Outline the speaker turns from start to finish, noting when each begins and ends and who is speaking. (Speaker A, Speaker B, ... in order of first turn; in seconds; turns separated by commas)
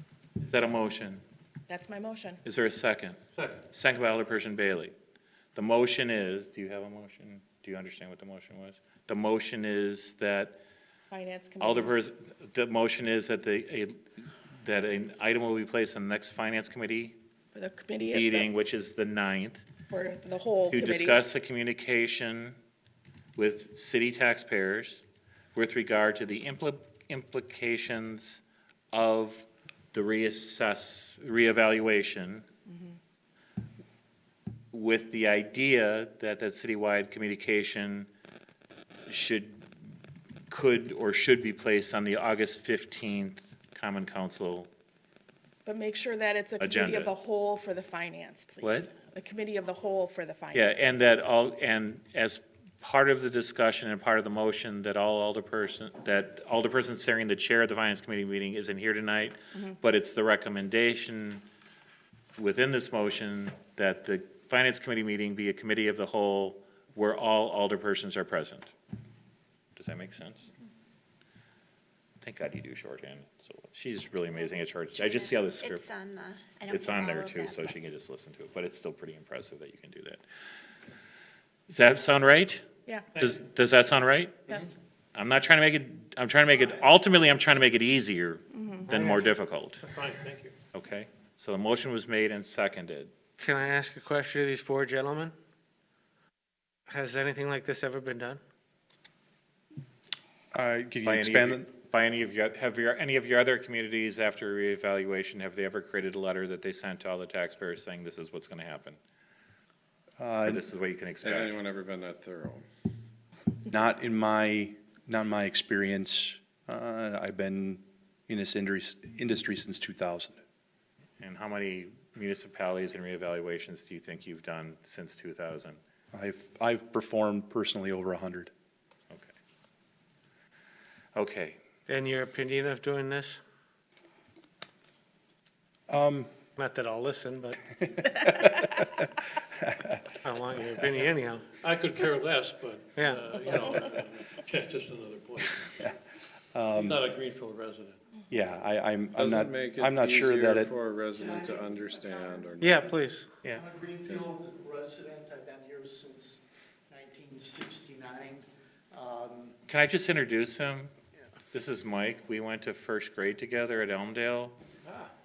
Speaker A: 0.4-1.2, Speaker B: 1.7-2.4, Speaker A: 2.4-3.2, Speaker A: 3.7-4.9, Speaker A: 5.5-10.6, Speaker B: 11.1-12.0, Speaker A: 11.6-14.0, Speaker A: 14.6-17.2, Speaker B: 17.5-18.5, Speaker A: 18.1-19.6, Speaker B: 19.9-21.2, Speaker A: 20.6-22.6, Speaker A: 23.4-25.0, Speaker A: 25.6-28.4, Speaker A: 28.9-32.5, Speaker A: 34.7-38.1, Speaker A: 39.1-39.6, Speaker A: 40.5-44.7, Speaker B: 45.7-51.0, Speaker A: 46.6-47.1, Speaker A: 48.6-48.9, Speaker A: 50.5-61.4, Speaker A: 62.4-68.7, Speaker A: 69.8-70.5, Speaker A: 72.2-75.9, Speaker C: 75.0-77.7, Speaker A: 76.7-80.2, Speaker A: 81.7-82.6, Speaker A: 83.2-84.5, Speaker A: 85.1-89.8, Speaker B: 88.5-89.0, Speaker D: 88.9-89.3, Speaker E: 89.9-90.5, Speaker A: 90.7-93.1, Speaker D: 93.4-95.3, Speaker D: 96.9-98.4, Speaker F: 100.5-101.7, Speaker A: 101.0-109.0, Speaker F: 110.2-110.6, Speaker A: 110.5-111.6, Speaker G: 111.2-112.6, Speaker F: 113.7-120.4, Speaker A: 121.2-125.8, Speaker F: 126.1-128.5, Speaker A: 131.2-131.6, Speaker D: 131.9-133.4, Speaker F: 135.9-136.3, Speaker D: 136.6-137.6, Speaker F: 138.1-138.8, Speaker F: 139.7-140.0, Speaker D: 140.2-141.5, Speaker E: 141.6-145.7, Speaker D: 143.0-143.5, Speaker F: 146.5-147.0, Speaker E: 146.7-148.0, Speaker F: 148.3-150.7, Speaker G: 149.1-152.9, Speaker D: 152.6-153.2, Speaker H: 153.5-159.6, Speaker A: 159.7-160.9, Speaker A: 161.5-164.6